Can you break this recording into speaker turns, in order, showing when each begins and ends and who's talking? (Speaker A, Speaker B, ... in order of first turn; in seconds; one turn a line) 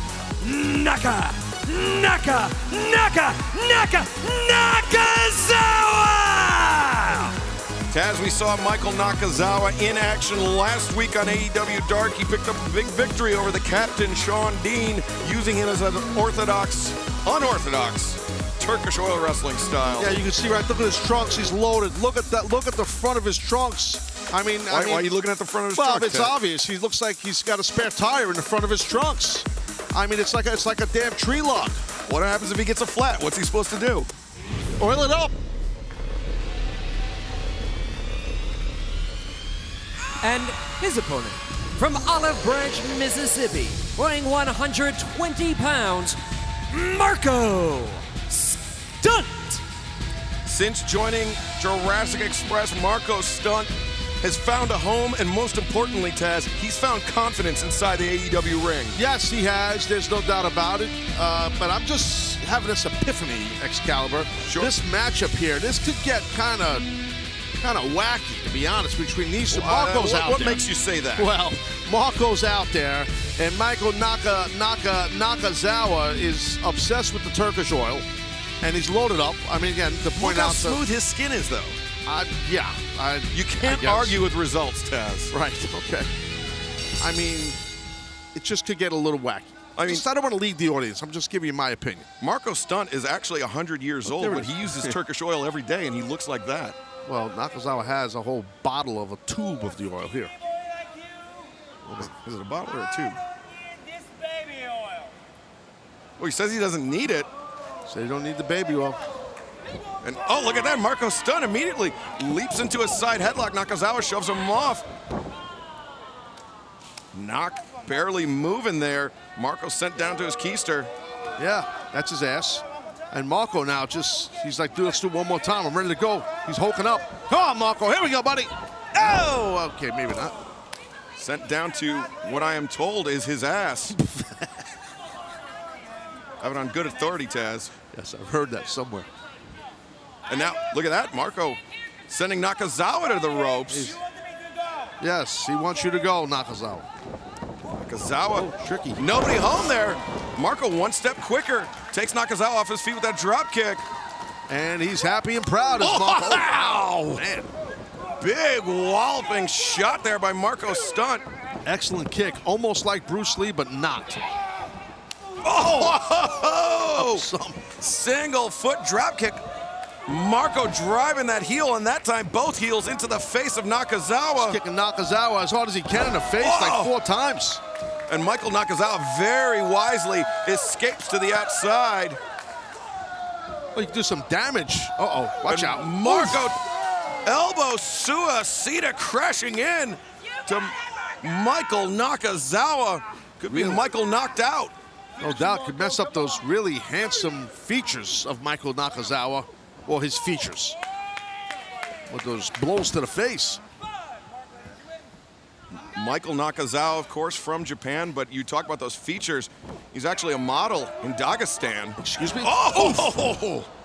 Speaker A: 0.4-7.3
Speaker B: 7.9-20.1
Speaker C: 20.0-25.1
Speaker B: 24.7-26.4
Speaker C: 25.7-31.8
Speaker B: 32.0-34.1
Speaker C: 34.8-35.3
Speaker A: 40.2-49.6
Speaker B: 50.4-59.0
Speaker C: 58.9-66.9
Speaker B: 64.4-64.7
Speaker C: 67.6-70.6
Speaker B: 69.5-71.3
Speaker C: 71.2-78.0
Speaker C: 78.6-80.8
Speaker B: 80.2-81.8
Speaker C: 82.0-84.2
Speaker B: 83.3-85.3
Speaker C: 85.3-86.1
Speaker C: 87.0-87.6
Speaker C: 88.3-92.1
Speaker B: 89.7-90.0
Speaker B: 92.2-96.8
Speaker C: 94.1-95.0
Speaker C: 97.0-100.3
Speaker C: 101.8-102.1
Speaker B: 102.0-103.2
Speaker B: 106.2-107.3
Speaker C: 107.9-109.0
Speaker B: 110.0-114.8
Speaker B: 117.1-120.9
Speaker C: 121.4-130.4
Speaker B: 131.2-134.0
Speaker C: 133.9-134.6
Speaker B: 136.4-137.7
Speaker C: 137.9-139.1
Speaker B: 140.3-144.0
Speaker C: 143.7-144.0
Speaker C: 145.0-146.9
Speaker B: 147.8-153.8
Speaker C: 148.3-149.1
Speaker C: 154.5-157.5
Speaker B: 155.8-157.2
Speaker B: 158.2-161.2
Speaker C: 161.6-164.2
Speaker B: 165.4-167.2
Speaker C: 166.9-167.7
Speaker B: 167.8-169.4
Speaker B: 170.1-174.6
Speaker C: 174.4-177.6
Speaker B: 176.4-176.9
Speaker B: 178.1-182.2
Speaker C: 183.7-186.4
Speaker B: 185.5-186.6
Speaker B: 187.2-194.7
Speaker C: 193.5-193.8
Speaker C: 195.2-200.8
Speaker C: 202.1-203.6
Speaker B: 205.8-213.7
Speaker C: 212.0-213.5